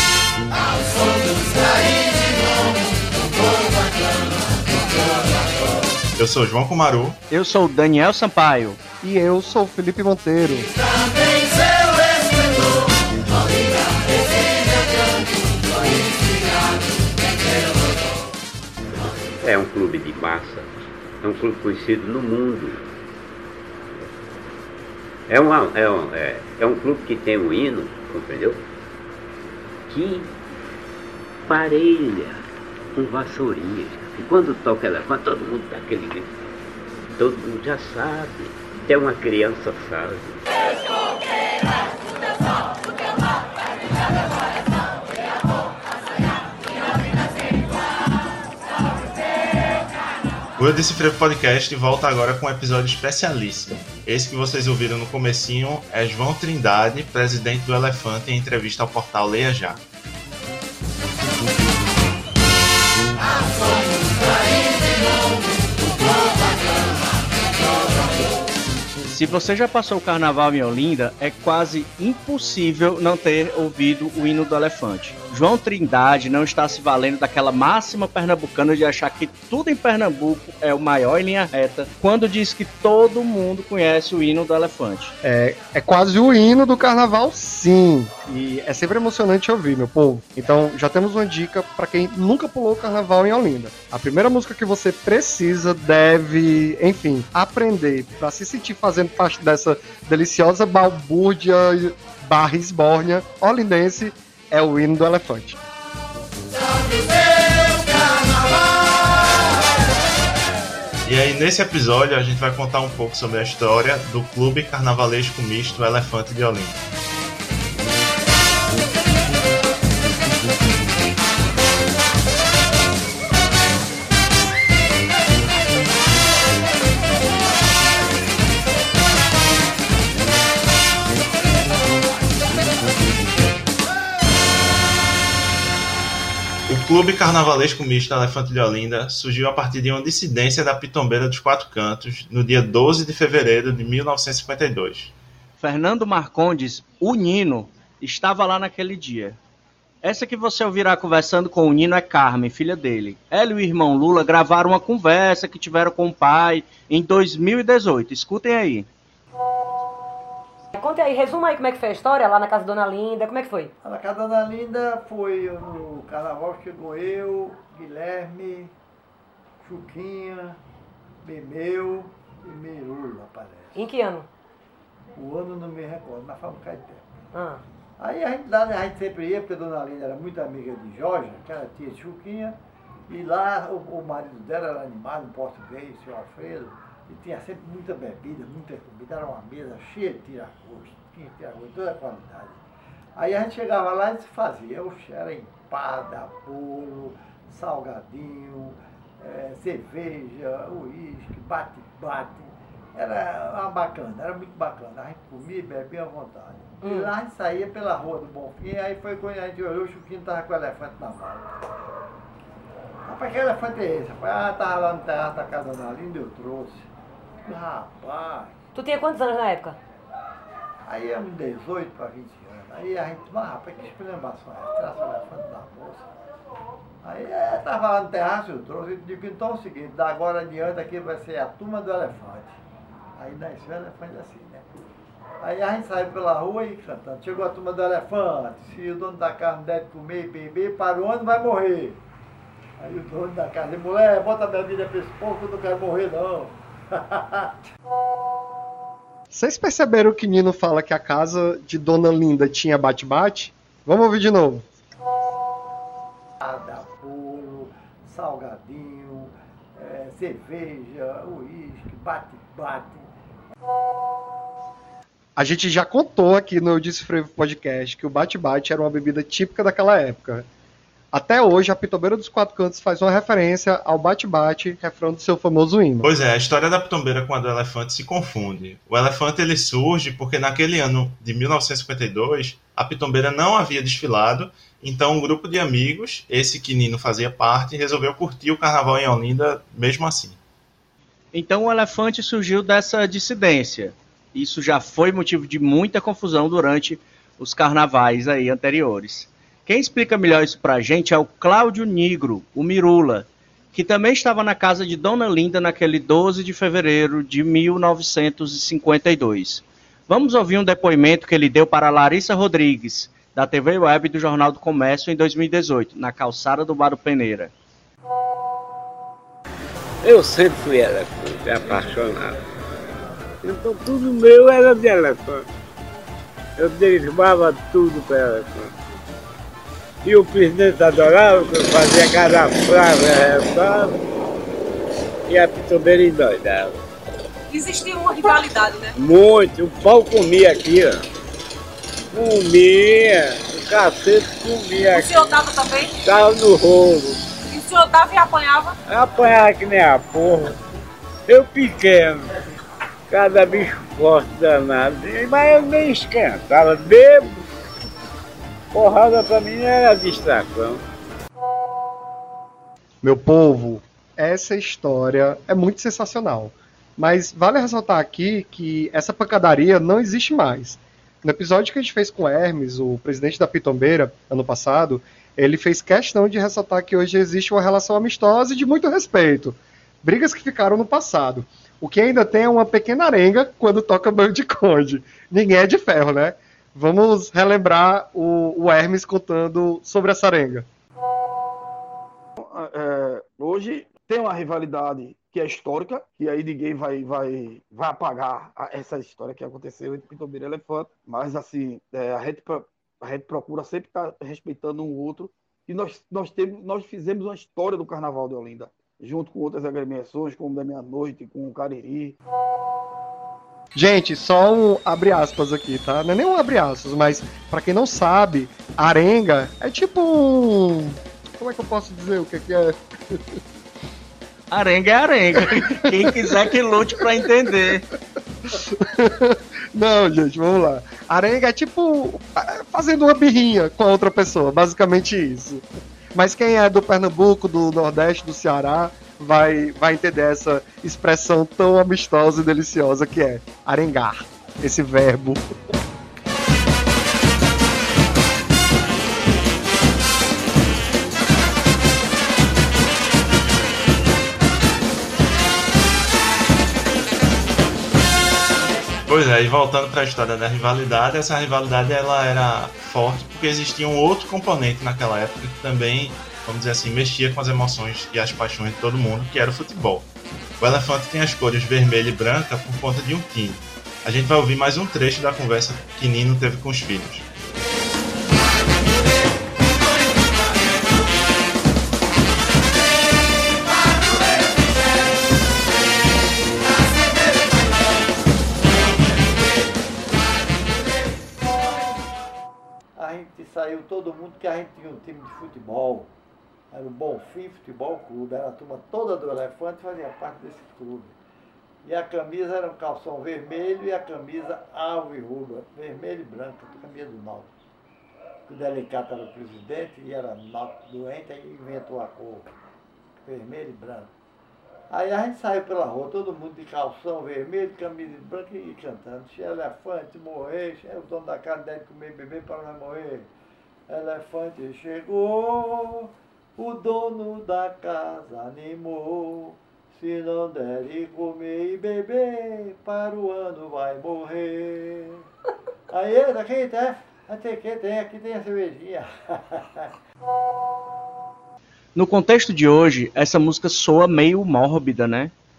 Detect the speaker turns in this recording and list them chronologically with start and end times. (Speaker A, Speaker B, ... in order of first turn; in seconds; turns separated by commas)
Speaker A: 0.4-0.8, Speaker A: 6.2-7.2, Speaker B: 7.3-8.8, Speaker C: 9.0-10.7, Speaker D: 19.4-22.9, Speaker D: 25.3-28.6, Speaker D: 29.9-30.3, Speaker D: 31.5-36.3, Speaker D: 37.2-40.4, Speaker A: 50.6-59.8, Speaker B: 69.1-85.2, Speaker C: 85.2-105.6, Speaker A: 111.0-116.8, Speaker A: 136.7-145.1, Speaker B: 145.6-149.4, Speaker B: 150.0-158.9, Speaker E: 160.7-163.7, Speaker F: 163.8-168.7, Speaker F: 169.6-170.6, Speaker F: 171.2-173.8, Speaker E: 173.8-174.3, Speaker F: 175.2-177.1, Speaker E: 177.3-177.6, Speaker F: 178.0-182.6, Speaker F: 183.1-192.6, Speaker F: 193.2-211.5, Speaker E: 206.8-207.1, Speaker F: 213.1-216.9, Speaker F: 217.4-218.6, Speaker E: 218.8-219.8, Speaker F: 220.8-226.1, Speaker F: 227.0-232.6, Speaker F: 233.2-234.8, Speaker F: 235.4-242.0, Speaker F: 242.8-247.6, Speaker C: 249.3-254.7, Speaker F: 256.4-263.1, Speaker C: 265.4-270.5, Speaker C: 271.1-276.1, Speaker A: 276.0-290.4, Speaker B: 291.3-317.5, Speaker G: 320.0-322.4, Speaker G: 323.4-325.5, Speaker G: 326.6-328.7, Speaker G: 330.1-334.0, Speaker G: 335.3-336.8, Speaker H: 337.5-338.9, Speaker G: 339.0-341.0, Speaker G: 342.1-345.3, Speaker H: 344.9-345.9, Speaker G: 346.1-347.2, Speaker H: 347.5-348.8, Speaker G: 348.9-350.5, Speaker G: 351.3-352.3, Speaker G: 353.1-357.4, Speaker G: 358.7-360.8, Speaker C: 363.0-390.7, Speaker I: 392.4-412.1, Speaker C: 413.8-423.4, Speaker B: 424.5-427.8, Speaker C: 425.4-426.5, Speaker C: 428.5-445.5, Speaker A: 459.1-470.1, Speaker A: 470.6-477.2, Speaker F: 493.0-496.1, Speaker F: 496.7-501.2, Speaker F: 501.8-507.5, Speaker F: 508.5-512.5, Speaker F: 513.2-514.1, Speaker F: 514.9-523.3, Speaker F: 523.9-535.3, Speaker F: 535.9-539.9, Speaker B: 542.0-545.3